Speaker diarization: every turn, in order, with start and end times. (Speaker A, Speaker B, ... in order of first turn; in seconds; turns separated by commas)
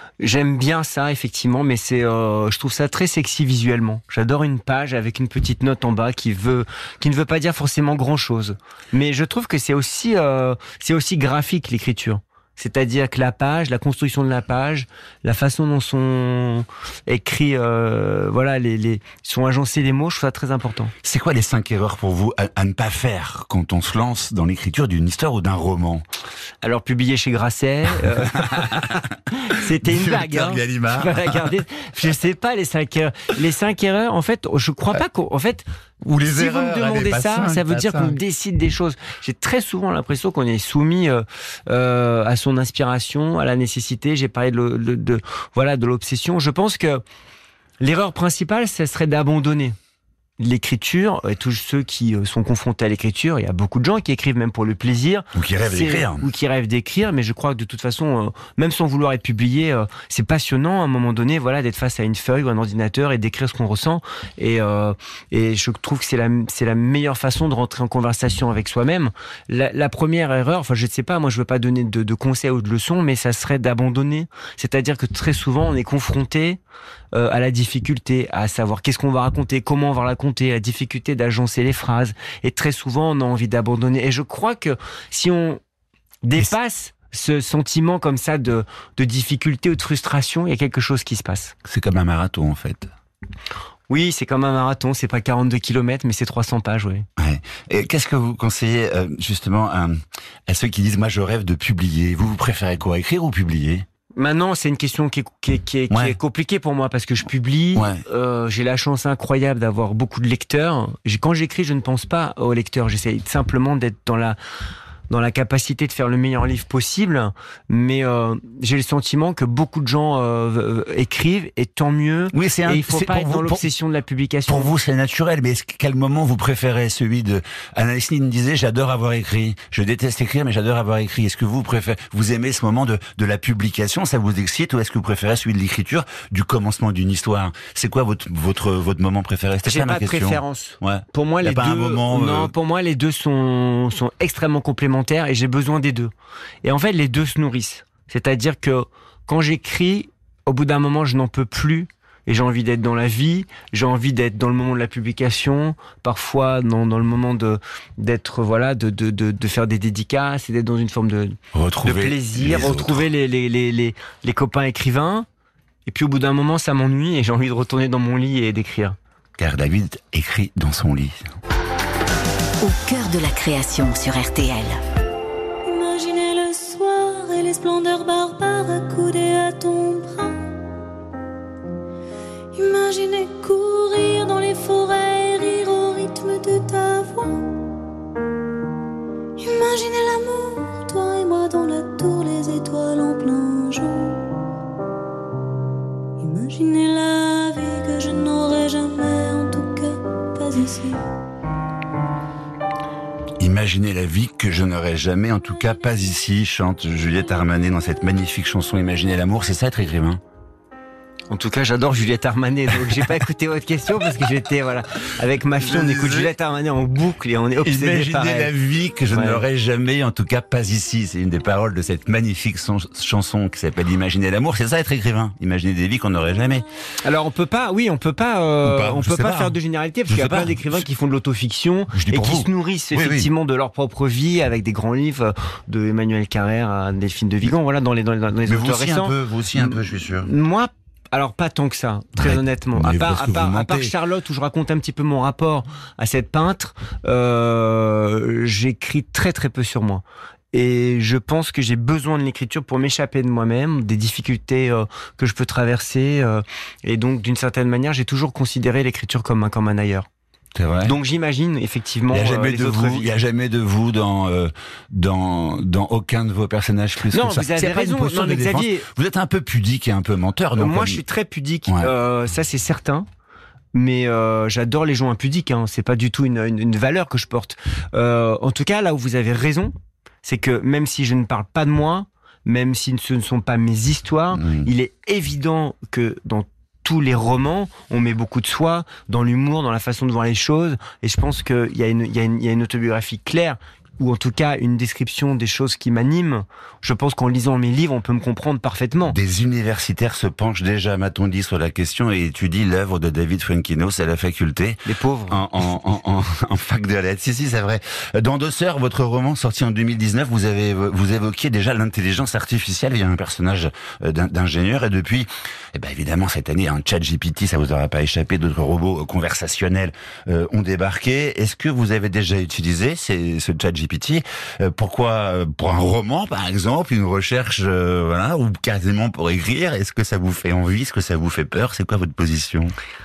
Speaker A: 0.2-20.9, Speaker B: 21.0-26.1, Speaker A: 26.6-35.7, Speaker B: 28.4-29.0, Speaker B: 29.8-31.6, Speaker B: 36.0-38.2, Speaker A: 36.2-47.0, Speaker A: 47.8-49.8, Speaker A: 50.4-76.6, Speaker B: 55.3-56.3, Speaker A: 77.1-85.6, Speaker A: 86.2-91.5, Speaker B: 91.7-92.9, Speaker A: 93.9-97.1, Speaker B: 97.2-103.9, Speaker A: 104.2-114.4, Speaker B: 105.9-106.2, Speaker B: 107.8-108.0, Speaker A: 115.1-124.7, Speaker B: 122.3-123.7, Speaker B: 124.5-142.5, Speaker A: 139.6-146.1, Speaker A: 146.6-165.3, Speaker B: 161.5-163.1, Speaker A: 165.9-169.0, Speaker B: 169.4-171.2, Speaker C: 172.6-174.8, Speaker D: 175.7-180.6, Speaker D: 182.5-187.7, Speaker D: 189.4-194.4, Speaker D: 196.2-201.1, Speaker B: 203.4-210.2, Speaker A: 211.3-218.5, Speaker B: 215.6-216.3, Speaker B: 217.6-226.7, Speaker A: 219.1-219.4, Speaker A: 227.1-260.1, Speaker B: 228.6-229.6, Speaker B: 230.1-230.8, Speaker B: 231.9-233.3, Speaker B: 238.5-240.3, Speaker B: 242.2-243.9, Speaker B: 260.6-261.0, Speaker A: 260.9-263.1, Speaker B: 262.1-271.0, Speaker A: 267.1-268.9, Speaker A: 270.6-273.1, Speaker A: 273.7-299.2, Speaker B: 284.4-284.7, Speaker B: 299.1-332.7, Speaker A: 304.9-305.4